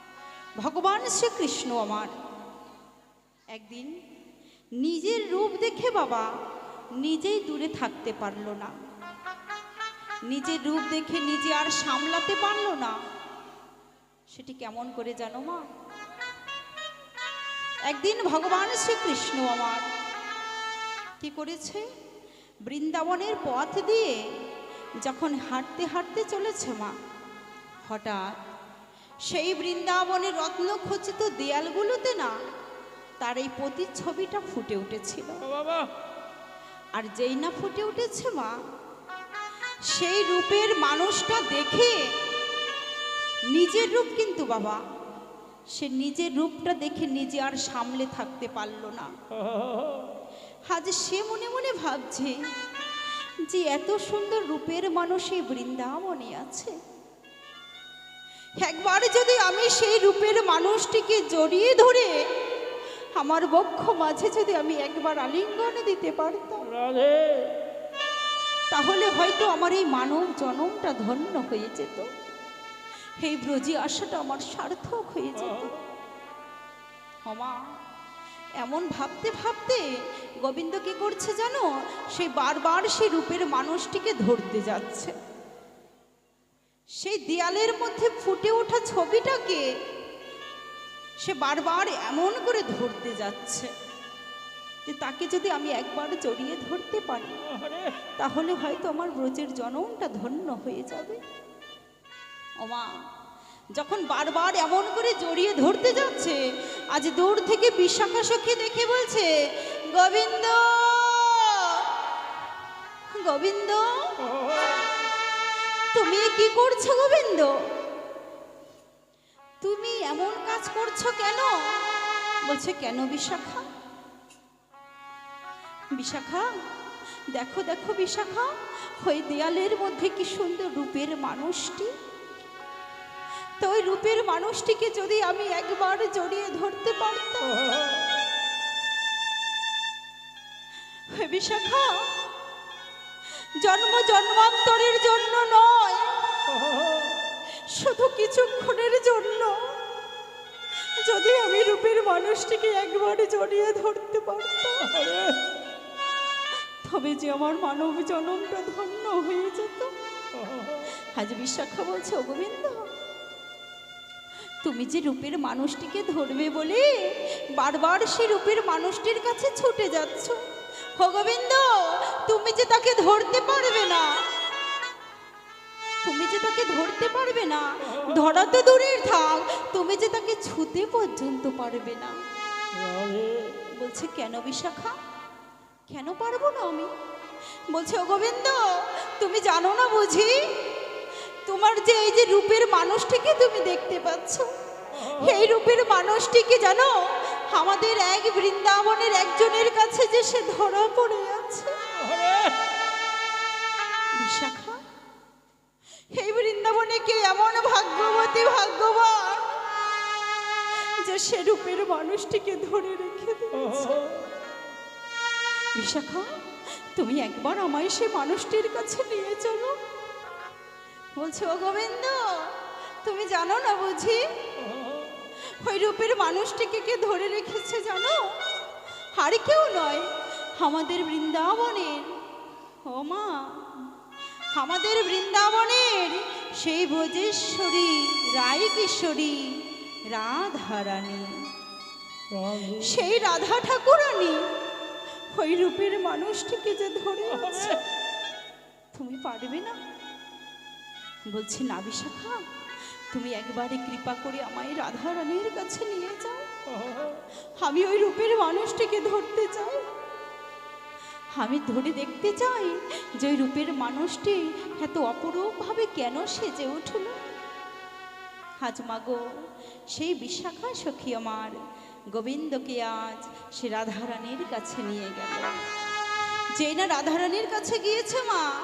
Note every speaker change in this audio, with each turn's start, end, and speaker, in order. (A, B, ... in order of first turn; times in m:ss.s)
0:00.6-0:02.1 A
0:03.5-0:03.9 A
0:04.8-0:06.3 A
0:07.0-0:08.7 A
0:10.3-0:13.0 A
0:14.3-0:15.6 A
0:17.9-0:19.8 A
0:21.2-0:21.8 A
0:22.7-0:24.1 A
0:25.0-0:26.9 A
0:27.9-0:28.3 A
0:29.3-0:32.3 A
0:33.2-0:35.4 A
0:35.4-0:35.9 B
0:37.0-0:38.5 A
0:39.9-0:42.0 A
0:43.5-0:44.8 A
0:45.7-0:49.1 A
0:49.3-0:50.1 B
0:50.7-0:52.3 A
0:53.5-0:56.7 A
0:58.6-1:02.2 A
1:03.2-1:06.6 A
1:06.6-1:07.5 B
1:08.7-1:12.1 A
1:13.2-1:15.7 A
1:15.4-1:15.7 B
1:17.2-1:17.5 A
1:18.6-1:19.8 A
1:20.4-1:25.1 A
1:27.0-1:29.6 A
1:31.2-1:33.7 A
1:34.8-1:37.4 A
1:37.5-1:38.0 B
1:38.2-1:41.2 A
1:42.6-1:42.9 A
1:43.8-1:46.4 A
1:46.9-1:49.3 A
1:49.9-1:51.8 A
1:53.1-1:54.1 A
1:55.9-1:57.5 A
1:59.6-2:01.5 A
2:02.4-2:03.6 A
2:05.9-2:06.4 A
2:07.3-2:11.9 A
2:13.6-2:17.5 A
2:17.6-2:18.0 B
2:21.1-2:21.9 A
2:23.6-2:26.1 A
2:26.5-2:27.2 B
2:27.7-2:29.5 A
2:31.0-2:34.9 A
2:34.8-2:35.4 B
2:36.8-2:39.9 A
2:40.4-2:40.8 B
2:41.2-2:42.9 A
2:44.6-2:46.8 A
2:47.6-2:50.4 A
2:51.0-2:54.1 A
2:56.0-3:02.2 A
3:02.7-3:03.6 B
3:03.8-3:04.9 A
3:05.9-3:06.9 A
3:07.7-3:10.3 A
3:11.4-3:14.5 A
3:15.0-3:15.3 B
3:15.0-3:16.9 A
3:17.5-3:21.7 A
3:22.0-3:22.6 B
3:24.2-3:24.8 A
3:26.1-3:29.5 A
3:31.0-3:34.0 A
3:33.6-3:34.2 B
3:35.8-3:36.3 A
3:37.0-3:39.8 A
3:41.2-3:42.5 A
3:43.0-3:44.2 A
3:44.6-3:45.1 B
3:45.6-3:48.2 A
3:49.2-3:50.1 A
3:50.6-3:52.0 A
3:52.8-3:53.3 A
3:54.5-3:59.5 A
4:00.1-4:01.2 A
4:02.3-4:03.0 B
4:02.8-4:04.4 A
4:05.3-4:07.8 A
4:07.3-4:07.8 B
4:08.9-4:09.8 A
4:11.3-4:12.4 A
4:13.1-4:16.4 A
4:16.7-4:17.2 B
4:17.6-4:19.8 A
4:21.4-4:27.1 A
4:28.6-4:29.2 A
4:29.9-4:31.5 A
4:32.1-4:35.5 A
4:36.6-4:38.4 A